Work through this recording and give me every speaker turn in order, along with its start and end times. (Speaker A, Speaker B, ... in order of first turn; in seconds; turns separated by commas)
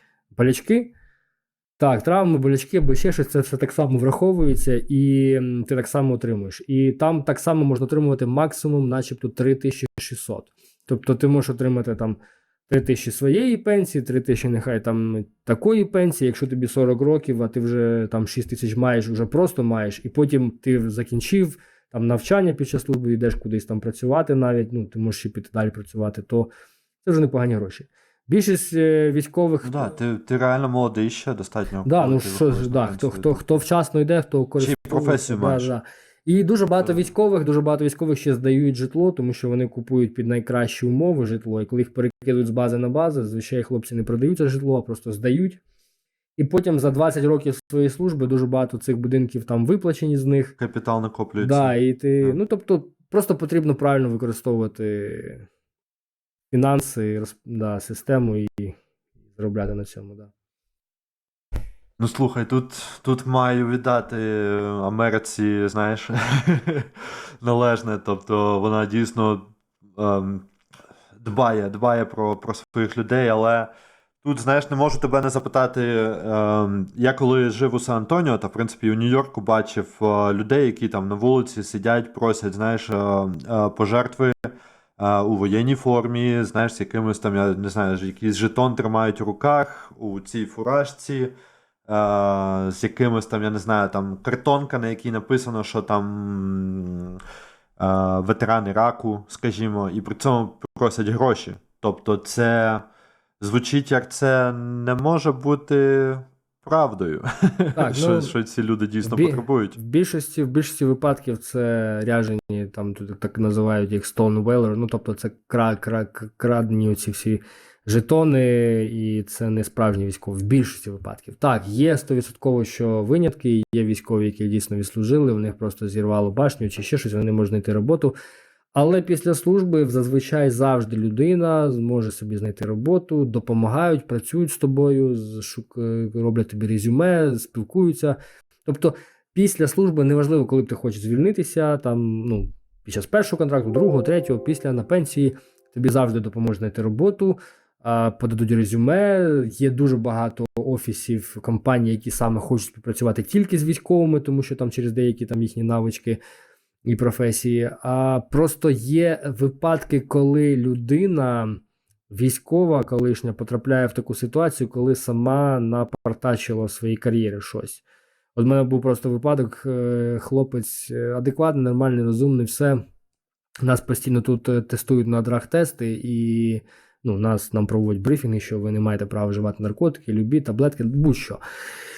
Speaker A: 0.3-0.9, Speaker A: 1.8-26.5, Speaker A: 27.0-30.0, Speaker B: 29.6-33.6, Speaker A: 31.8-45.6, Speaker B: 34.6-35.7, Speaker A: 46.4-50.5, Speaker B: 50.6-52.4, Speaker A: 51.4-55.5, Speaker A: 56.5-58.8, Speaker A: 59.3-60.3, Speaker B: 62.0-70.5, Speaker B: 71.2-73.7, Speaker B: 74.2-84.5, Speaker B: 85.0-91.3, Speaker B: 91.9-97.2, Speaker B: 97.8-102.8, Speaker B: 103.4-109.8, Speaker A: 107.8-108.3, Speaker A: 109.0-128.1, Speaker A: 128.7-156.2, Speaker A: 156.8-167.8, Speaker A: 168.3-172.8, Speaker A: 173.6-181.4